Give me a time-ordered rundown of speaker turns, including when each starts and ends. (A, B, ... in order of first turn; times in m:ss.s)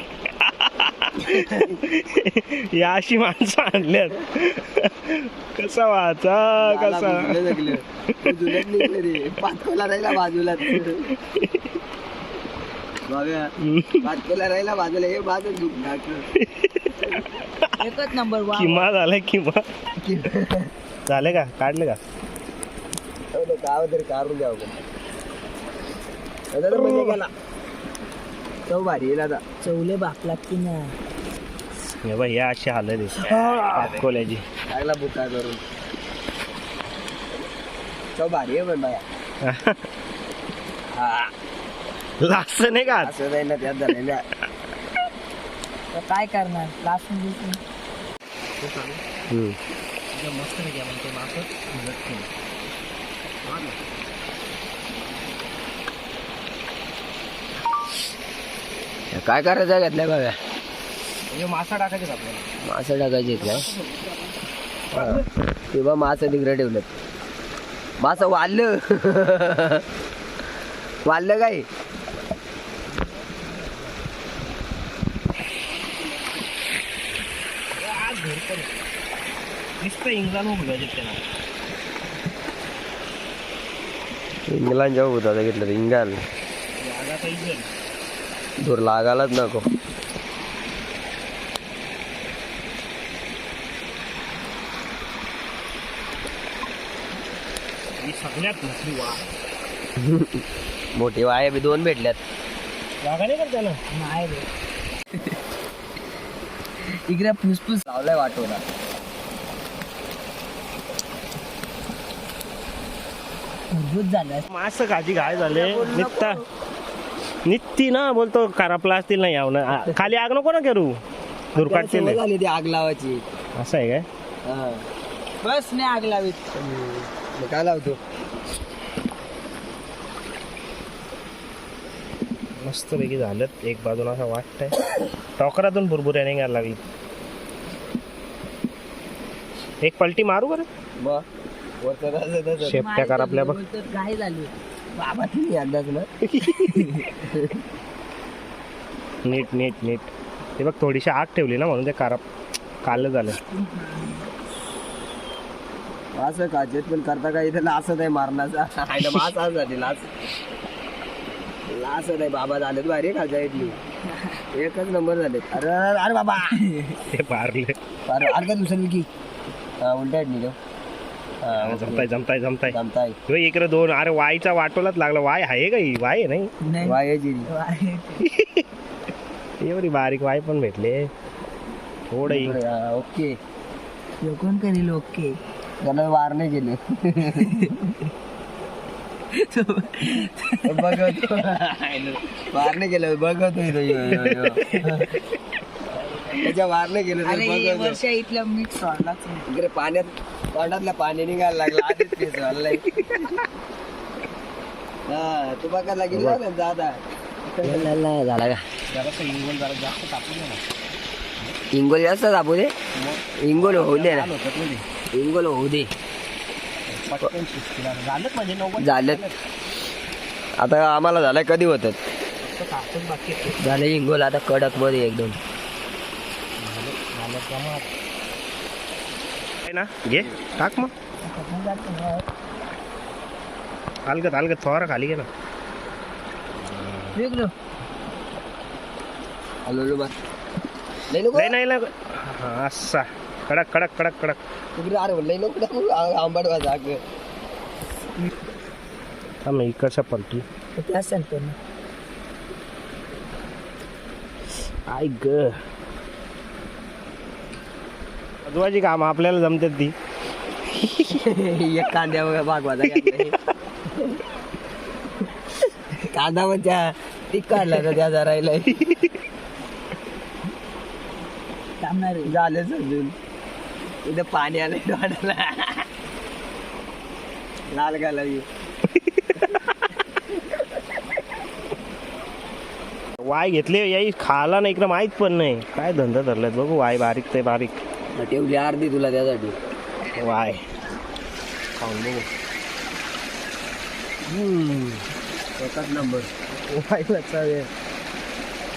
0:00.4-0:08.9 A
0:06.6-0:11.2 B
0:11.3-0:11.7 A
0:13.1-0:13.5 B
0:13.6-0:14.1 A
0:14.0-0:16.3 B
0:16.4-0:17.8 A
0:17.8-0:18.9 C
0:18.5-0:19.6 A
0:20.0-0:20.7 B
0:21.1-0:22.0 A
0:23.3-0:24.8 B
0:26.5-0:27.3 B
0:26.7-0:27.2 A
0:28.7-0:29.4 B
0:29.6-0:31.0 C
0:32.0-0:34.4 A
0:33.2-0:34.0 B
0:34.7-0:35.6 B
0:38.2-0:39.0 B
0:39.4-0:39.8 A
0:40.9-0:41.3 B
0:42.2-0:43.1 A
0:42.9-0:44.2 B
0:45.9-0:47.6 C
0:48.6-0:49.0 A
0:49.3-0:49.6 B
0:50.1-0:52.3 A
0:53.5-0:53.8 A
0:59.1-1:00.4 B
1:01.3-1:02.5 A
1:02.6-1:03.7 B
1:03.4-1:04.3 A
1:04.9-1:05.3 A
1:04.9-1:07.0 B
1:08.0-1:09.8 B
1:11.1-1:11.7 B
1:17.8-1:18.7 A
1:19.8-1:21.2 A
1:24.5-1:26.2 B
1:26.8-1:27.7 A
1:28.6-1:29.6 B
1:38.0-1:39.3 A
1:40.0-1:40.4 B
1:41.0-1:42.2 B
1:43.0-1:43.8 A
1:43.9-1:44.5 C
1:46.8-1:47.8 C
1:47.8-1:48.6 B
1:53.7-1:54.5 C
1:54.5-1:56.4 A
1:55.2-1:56.4 C
1:57.5-2:01.0 A
2:01.5-2:02.2 A
2:01.6-2:03.2 B
2:03.6-2:04.1 A
2:04.5-2:04.9 B
2:05.4-2:06.4 C
2:06.6-2:08.0 B
2:12.6-2:14.8 A
2:15.4-2:16.8 A
2:19.8-2:20.7 A
2:21.8-2:22.9 B
2:22.6-2:23.6 A
2:22.7-2:24.5 C
2:25.0-2:26.1 B
2:26.2-2:26.9 A
2:27.0-2:27.6 B
2:29.2-2:32.2 A
2:32.8-2:33.4 A
2:33.5-2:34.3 C
2:36.2-2:40.1 B
2:41.7-2:43.8 B
2:44.1-2:44.4 C
2:44.5-2:46.6 B
2:46.5-2:47.0 C
2:47.0-2:47.8 A
2:48.1-2:49.1 B
2:49.8-2:50.6 B
2:51.4-2:52.1 B
2:51.5-2:52.8 A
2:52.7-2:53.2 B
2:53.3-2:56.5 A
2:56.6-2:58.3 C
2:56.8-2:57.5 B
2:58.2-2:58.6 A
2:59.6-3:01.1 A
3:02.1-3:02.6 A
3:02.3-3:03.4 B
3:04.2-3:05.4 C
3:05.8-3:07.7 B
3:07.4-3:08.0 C
3:09.3-3:11.2 C
3:10.7-3:15.2 B
3:14.0-3:14.8 A
3:16.0-3:18.0 B
3:17.2-3:19.5 C
3:19.5-3:22.9 B
3:22.8-3:23.4 A
3:25.1-3:27.0 B
3:26.1-3:26.4 A
3:27.5-3:28.0 A
3:27.6-3:28.6 B
3:28.9-3:30.6 A
3:31.7-3:32.7 B
3:32.9-3:34.8 A
3:33.4-3:34.3 B
3:35.1-3:35.9 B
3:36.9-3:39.4 A
3:38.8-3:39.2 B
3:40.6-3:42.0 B
3:42.4-3:43.7 A
3:43.6-3:45.4 B
3:46.6-3:47.9 A
3:49.6-3:50.9 A
3:51.2-3:52.3 C
3:54.1-3:55.3 A
3:56.6-3:57.2 A
3:57.2-3:57.5 C
3:59.7-4:00.2 B
4:01.1-4:01.6 B
4:01.3-4:04.4 A
4:04.8-4:07.0 B
4:09.4-4:10.4 A
4:10.8-4:11.6 C
4:14.9-4:15.6 A
4:18.4-4:20.0 A
4:20.8-4:21.2 A
4:21.1-4:23.4 B
4:25.9-4:28.9 B
4:31.8-4:32.3 C
4:32.2-4:33.2 B
4:34.0-4:35.9 B
4:37.7-4:38.5 B
4:38.9-4:39.7 A
4:43.2-4:47.8 A
4:48.2-4:49.6 B
4:50.2-4:50.6 A
4:51.8-4:52.3 A
4:54.3-4:55.0 A
4:55.6-4:56.3 B
4:56.7-4:57.7 A